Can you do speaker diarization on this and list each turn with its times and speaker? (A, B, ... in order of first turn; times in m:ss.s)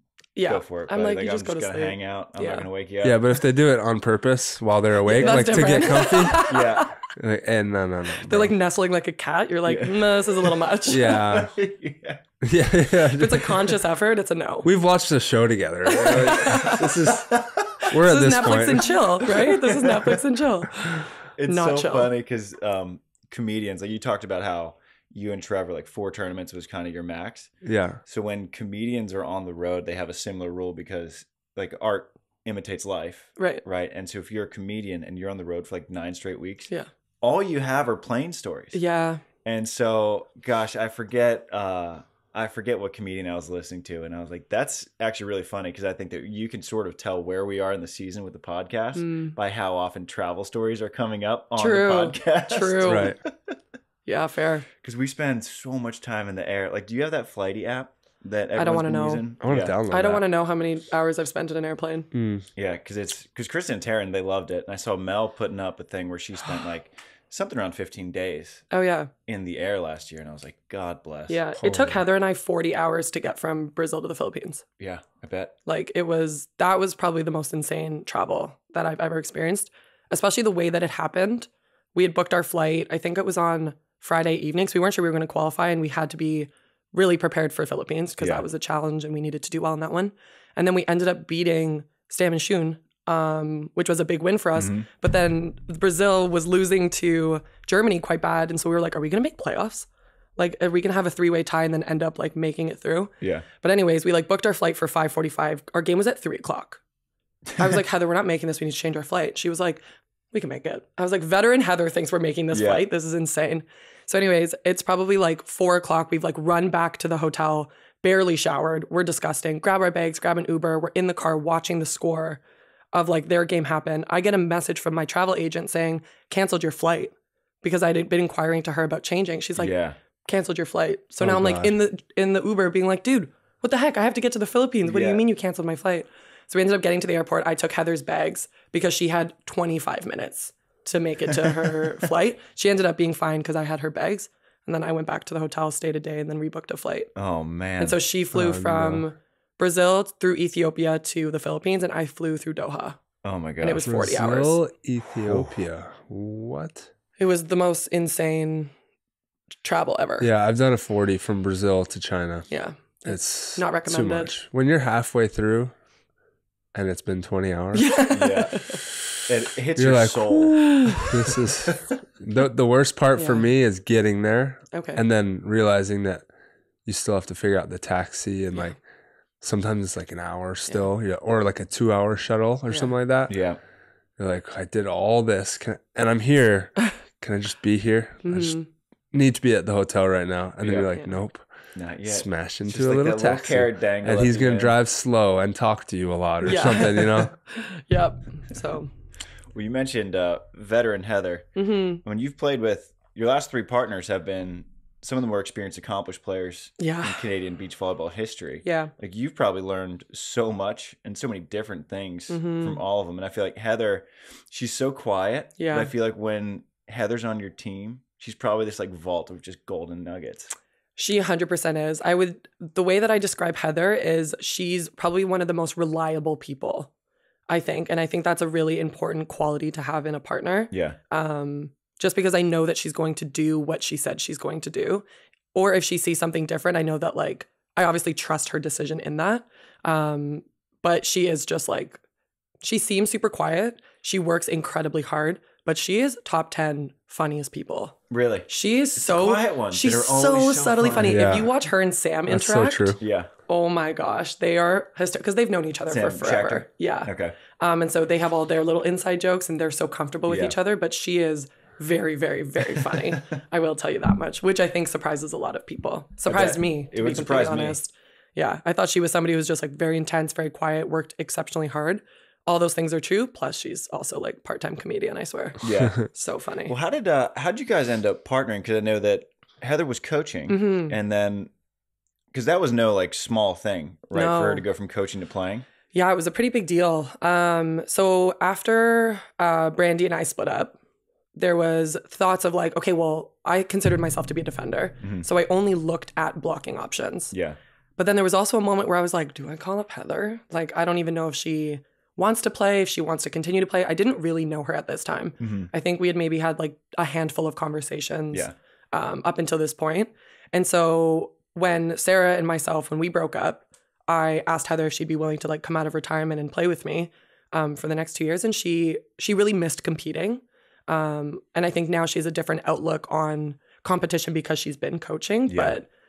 0:00.4-0:02.6 A
0:00.4-0:03.3 B
0:03.0-0:06.5 C
0:05.0-0:06.9 A
0:06.4-0:06.9 B
0:07.1-0:08.5 C
0:08.2-0:11.2 A
0:09.6-0:12.2 B
0:10.9-0:11.5 C
0:12.4-0:13.7 C
0:13.1-0:14.7 A
0:14.6-0:19.0 C
0:15.8-0:17.2 A
0:16.1-0:17.8 B
0:17.8-0:22.1 A
0:19.3-0:20.2 B
0:21.2-0:27.5 B
0:27.6-0:28.0 C
0:28.0-0:36.7 B
0:33.4-0:33.6 A
0:37.2-0:38.8 B
0:38.7-0:39.2 A
0:39.4-0:53.5 B
0:48.9-0:49.3 A
0:51.6-0:53.2 A
0:52.8-0:53.2 C
0:54.0-0:54.7 A
0:54.8-0:59.8 B
0:58.6-0:59.2 A
0:59.4-1:00.2 C
0:59.9-1:02.1 A
1:02.1-1:02.4 C
1:02.6-1:08.7 B
1:08.7-1:09.1 A
1:09.3-1:11.5 B
1:11.3-1:14.6 A
1:11.6-1:12.0 C
1:14.8-1:15.5 B
1:15.6-1:46.8 A
1:28.2-1:28.4 B
1:34.6-1:34.9 B
1:43.2-1:43.4 B
1:47.6-1:49.8 A
1:50.3-2:02.4 A
1:52.5-1:52.8 B
2:02.9-2:09.7 A
2:09.6-2:09.9 B
2:10.2-2:27.1 A
2:11.2-2:11.7 C
2:14.8-2:15.2 B
2:21.4-2:21.7 B
2:27.2-2:28.0 B
2:27.8-2:33.0 A
2:28.3-2:29.0 C
2:33.2-2:33.9 B
2:33.6-2:34.6 A
2:33.8-2:36.9 C
2:35.2-2:35.5 B
2:37.2-2:38.7 A
2:39.6-2:40.3 A
2:40.2-2:42.5 C
2:42.5-2:44.4 A
2:43.1-2:45.7 C
2:46.7-2:47.9 C
2:47.7-2:48.8 A
2:48.1-2:48.6 B
2:49.2-2:51.7 B
2:49.8-2:56.2 C
2:53.1-2:53.4 A
2:54.7-2:55.0 A
2:56.8-2:58.8 C
2:59.4-3:03.4 C
3:03.3-3:03.6 B
3:04.2-3:08.6 C
3:08.2-3:08.7 A
3:09.1-3:11.4 C
3:10.6-3:10.9 B
3:11.7-3:14.7 B
3:12.0-3:17.4 C
3:16.4-3:18.9 A
3:19.5-3:40.5 B
3:21.6-3:22.0 A
3:26.8-3:27.2 A
3:28.6-3:28.9 A
3:32.3-3:32.8 A
3:35.6-3:35.9 A
3:41.0-3:46.9 A
3:47.5-4:02.0 A
3:50.7-3:51.0 B
4:02.6-4:08.0 A
4:08.1-4:11.3 B
4:08.5-4:36.7 A
4:11.0-4:11.5 C
4:12.3-4:13.0 C
4:13.0-4:13.3 B
4:15.9-4:17.4 B
4:20.3-4:20.6 B
4:22.9-4:23.2 B
4:26.3-4:27.8 B
4:35.6-4:36.1 B
4:36.7-4:41.5 B
4:40.5-4:41.0 A
4:42.3-4:45.6 B
4:44.1-4:44.6 A
4:45.9-4:50.8 A
4:51.3-4:57.3 A
4:55.0-4:55.3 B
4:57.3-4:57.6 B
4:58.0-5:25.9 A
5:05.4-5:05.7 B
5:25.5-5:25.8 B